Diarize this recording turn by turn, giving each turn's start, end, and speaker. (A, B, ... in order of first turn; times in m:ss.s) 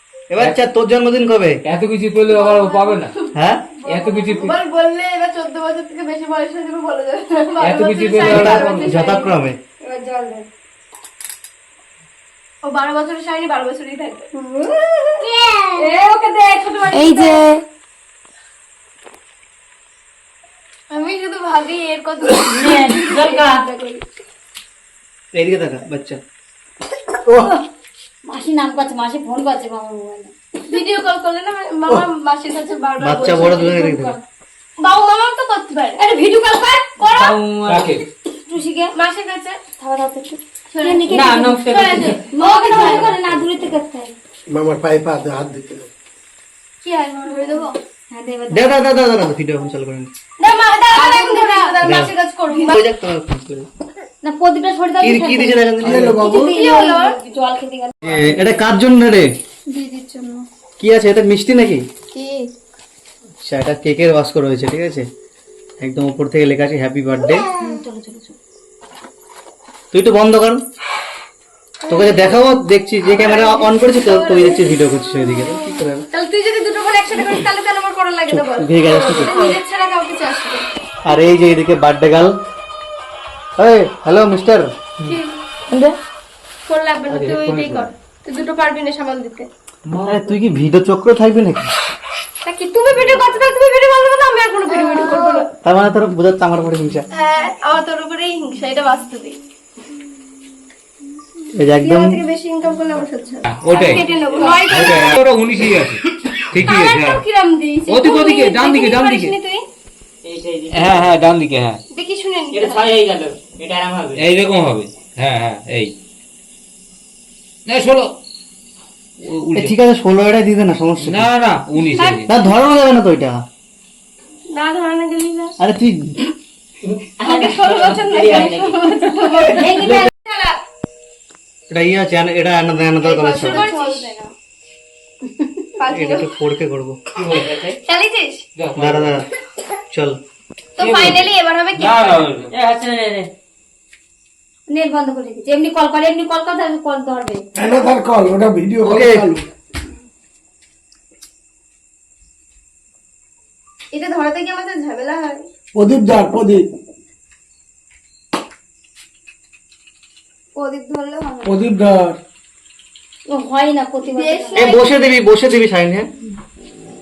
0:00.3-0:01.6 A
0:01.6-0:03.1 B
0:03.4-0:03.7 A
0:03.8-0:04.5 B
0:04.3-0:09.3 C
0:07.6-0:09.0 B
0:08.2-0:09.6 A
0:09.8-0:10.4 D
0:12.6-0:14.3 C
0:15.2-0:15.9 D
0:15.8-0:17.3 C
0:16.9-0:17.6 D
0:20.9-0:24.0 C
0:22.5-0:23.7 E
0:25.3-0:26.2 A
0:27.2-0:27.5 F
0:27.4-0:27.6 D
0:28.3-0:30.3 D
0:30.7-0:33.9 C
0:33.0-0:34.2 A
0:33.5-0:34.1 D
0:34.8-0:36.1 C
0:36.0-0:36.9 D
0:37.0-0:37.3 C
0:37.1-0:38.0 E
0:37.7-0:38.0 B
0:38.5-0:38.9 D
0:39.0-0:39.6 C
0:39.8-0:44.1 D
0:40.7-0:43.1 C
0:41.1-0:42.2 E
0:44.5-0:45.9 F
0:46.8-0:47.7 C
0:48.1-0:48.8 D
0:48.5-0:50.1 A
0:50.4-0:52.8 C
0:51.3-0:51.6 D
0:51.8-0:52.1 A
0:52.7-0:53.7 A
0:54.2-0:55.6 D
0:55.0-0:56.2 A
0:55.8-0:56.6 F
0:56.2-0:58.4 D
0:56.4-0:57.2 C
0:58.0-0:59.3 A
1:00.8-1:01.8 A
1:03.4-1:05.1 A
1:05.8-1:07.5 A
1:07.5-1:08.3 D
1:09.9-1:10.6 A
1:11.9-1:16.1 A
1:13.0-1:14.8 C
1:16.1-1:20.7 C
1:18.3-1:19.4 A
1:21.0-1:22.4 A
1:23.6-1:24.7 A
1:26.7-1:29.5 C
1:27.1-1:27.9 B
1:29.9-1:30.4 B
1:30.1-1:31.7 A
1:32.4-1:35.5 C
1:33.0-1:33.2 B
1:34.7-1:35.4 D
1:35.6-1:37.1 A
1:37.1-1:39.4 C
1:41.6-1:42.2 A
1:41.8-1:45.2 C
1:43.5-1:47.2 B
1:44.2-1:44.6 E
1:46.6-1:49.6 C
1:47.9-1:49.4 B
1:50.2-1:51.1 E
1:50.7-1:51.8 B
1:51.9-1:53.0 C
1:52.5-1:54.3 E
1:54.1-1:55.9 B
1:57.7-1:58.1 B
1:59.2-1:59.7 B
1:59.6-2:01.3 A
2:01.0-2:02.3 B
2:02.3-2:03.4 A
2:04.5-2:05.6 C
2:05.6-2:06.2 A
2:07.2-2:09.1 E
2:07.2-2:10.5 C
2:09.2-2:10.1 D
2:11.7-2:13.7 A
2:13.0-2:14.3 C
2:13.8-2:14.0 D
2:15.8-2:16.3 C
2:15.9-2:17.0 A
2:17.2-2:17.7 B
2:17.4-2:17.8 E
2:17.9-2:18.4 C
2:18.6-2:19.2 B
2:18.8-2:19.3 A
2:19.9-2:20.2 A
2:20.8-2:22.2 C
2:20.8-2:22.5 B
2:22.5-2:23.3 E
2:24.7-2:27.5 D
2:27.6-2:29.5 F
2:28.8-2:29.3 A
2:33.9-2:35.4 C
2:35.7-2:36.7 F
2:40.7-2:41.2 C
2:41.4-2:42.2 F
2:43.3-2:44.7 D
2:44.1-2:44.9 C
2:44.6-2:46.1 A